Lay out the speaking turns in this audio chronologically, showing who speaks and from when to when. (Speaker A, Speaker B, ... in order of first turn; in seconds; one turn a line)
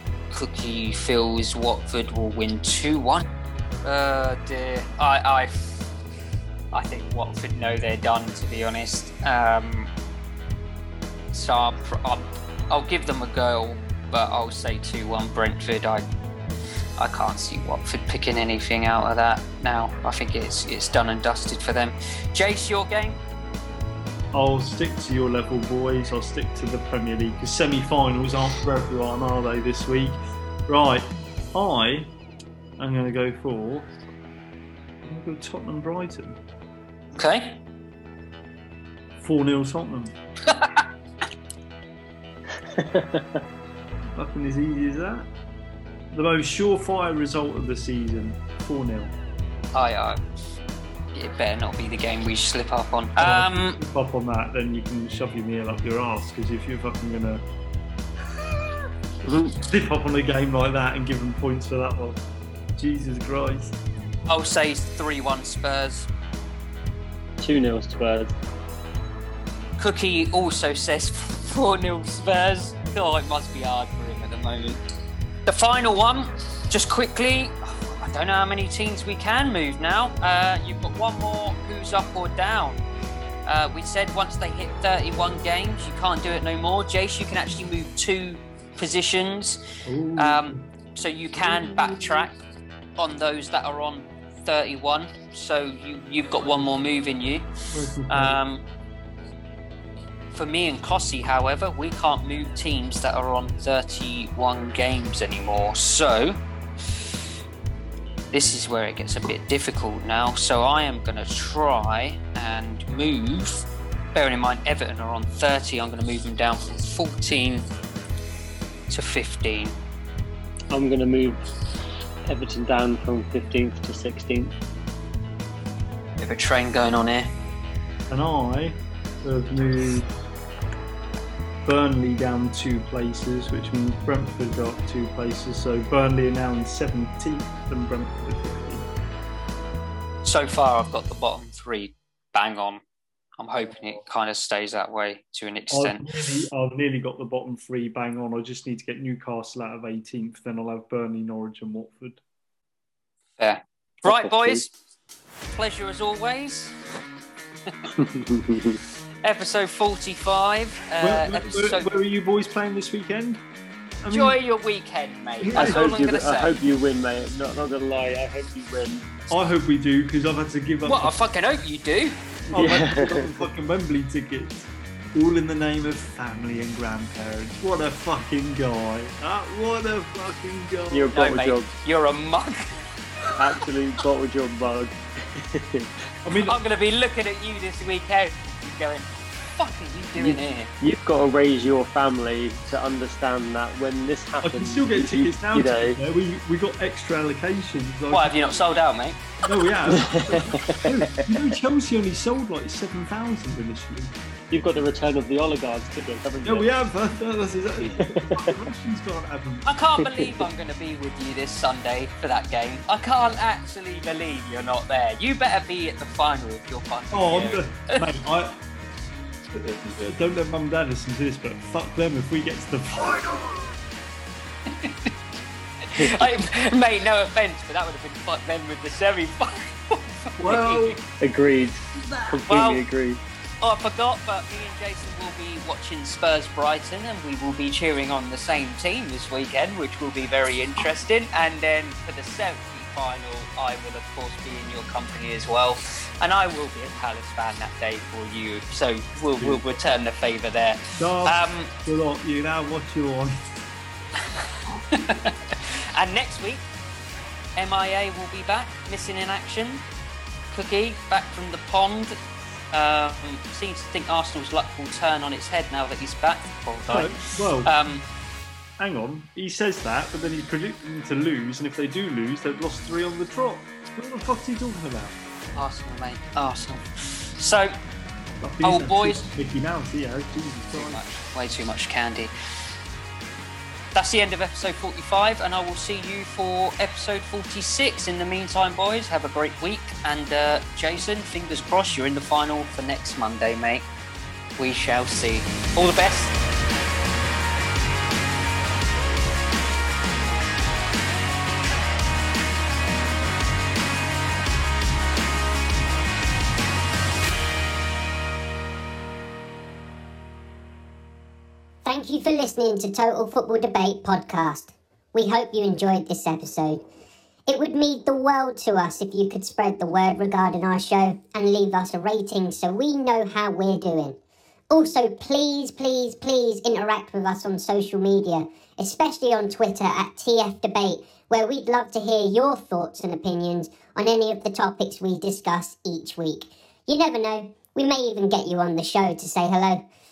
Speaker A: 0.3-3.2
Speaker A: 3.8-5.9
Speaker A: 6.7-9.9
Speaker A: 11.3-16.1
Speaker A: 17.0-23.2
Speaker B: 24.3-32.1
Speaker B: 32.8-33.9
Speaker B: 35.0-36.4
Speaker A: 37.1-37.6
Speaker B: 39.2-40.1
Speaker A: 40.5-40.8
Speaker C: 42.7-43.4
Speaker B: 44.1-45.3
Speaker B: 46.1-49.1
Speaker A: 49.7-50.2
Speaker A: 51.1-53.8
Speaker B: 53.2-57.4
Speaker C: 59.2-59.5
Speaker B: 59.6-62.2
Speaker B: 62.8-63.8
Speaker A: 64.3-66.1
Speaker C: 67.4-68.3
Speaker A: 69.8-74.8
Speaker A: 75.5-82.8
Speaker A: 83.5-89.6
Speaker B: 89.8-90.7
Speaker A: 90.2-92.4
Speaker B: 91.4-92.3
Speaker A: 93.0-97.4
Speaker B: 97.7-98.4
Speaker A: 98.1-98.6
Speaker A: 100.3-106.4
Speaker A: 108.3-117.6
Speaker A: 118.9-119.8
Speaker C: 120.7-121.4
Speaker C: 122.2-124.5
Speaker A: 126.2-127.3
Speaker B: 128.1-130.1
Speaker B: 131.6-138.9
Speaker A: 140.2-142.8
Speaker A: 143.4-146.2
Speaker B: 145.7-152.2
Speaker A: 153.4-154.7
Speaker C: 154.0-154.6
Speaker A: 155.5-156.8
Speaker C: 158.0-158.8
Speaker A: 159.2-161.9
Speaker B: 161.0-163.4
Speaker B: 164.0-164.4
Speaker A: 164.1-166.6
Speaker B: 165.4-166.1
Speaker C: 165.5-169.1
Speaker B: 169.3-171.1
Speaker A: 170.8-172.2
Speaker C: 172.5-173.4
Speaker B: 172.5-181.2
Speaker C: 180.9-181.7
Speaker A: 181.1-182.8
Speaker C: 183.3-185.9
Speaker B: 186.2-186.6
Speaker A: 186.4-190.7
Speaker C: 190.2-196.0
Speaker B: 194.4-198.5
Speaker A: 198.1-199.2
Speaker B: 199.4-204.1
Speaker C: 199.9-201.4
Speaker C: 204.5-206.7
Speaker B: 206.4-209.7
Speaker C: 207.8-208.6
Speaker A: 209.6-218.0
Speaker C: 210.0-210.4
Speaker B: 217.1-218.6
Speaker B: 219.5-223.7
Speaker A: 224.8-225.1
Speaker A: 225.9-231.0
Speaker B: 230.4-231.0
Speaker C: 231.2-233.2
Speaker B: 231.9-232.4
Speaker A: 232.5-232.8
Speaker A: 233.6-251.7
Speaker B: 249.3-249.6
Speaker B: 251.0-253.4
Speaker A: 254.9-256.6
Speaker A: 257.6-259.8
Speaker A: 260.5-262.2
Speaker A: 262.7-268.0
Speaker B: 266.9-267.7
Speaker B: 268.8-275.1
Speaker A: 275.5-277.7
Speaker B: 278.4-281.0
Speaker A: 278.6-279.3
Speaker A: 280.7-282.3
Speaker A: 283.9-293.9
Speaker A: 294.6-296.4
Speaker D: 311.8-316.8
Speaker D: 317.5-324.2
Speaker D: 324.7-339.8